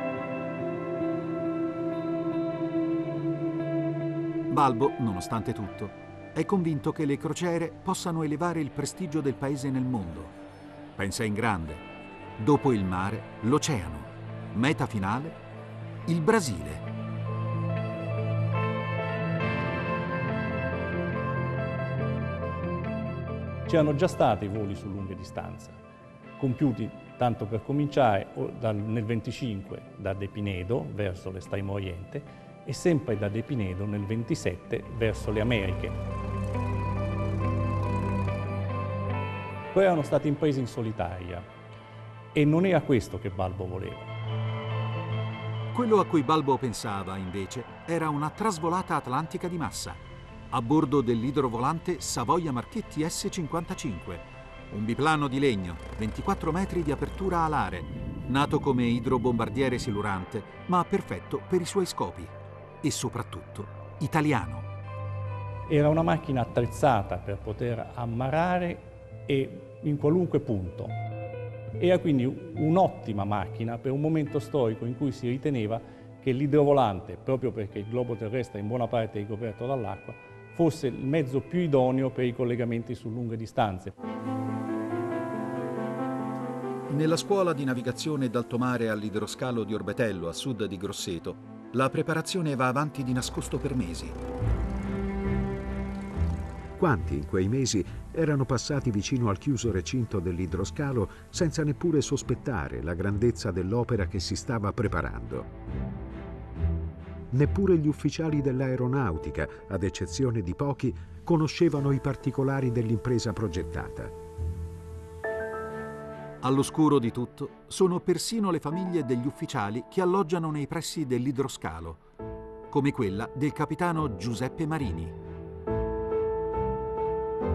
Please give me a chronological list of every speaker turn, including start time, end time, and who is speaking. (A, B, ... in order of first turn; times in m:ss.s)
0:04.5-0:10.3 A
0:11.0-0:11.8 A
0:12.4-0:15.4 A
0:16.0-0:16.8 A
0:23.7-0:25.8 B
0:26.4-0:36.0 B
0:39.7-0:41.4 B
0:42.3-0:44.1 B
0:45.7-1:04.7 A
1:05.7-1:10.9 B
1:11.8-1:24.0 B
1:26.9-1:34.2 A
1:36.8-1:45.5 C
1:47.3-1:54.1 C
1:56.4-2:02.0 A
2:02.7-2:05.1 A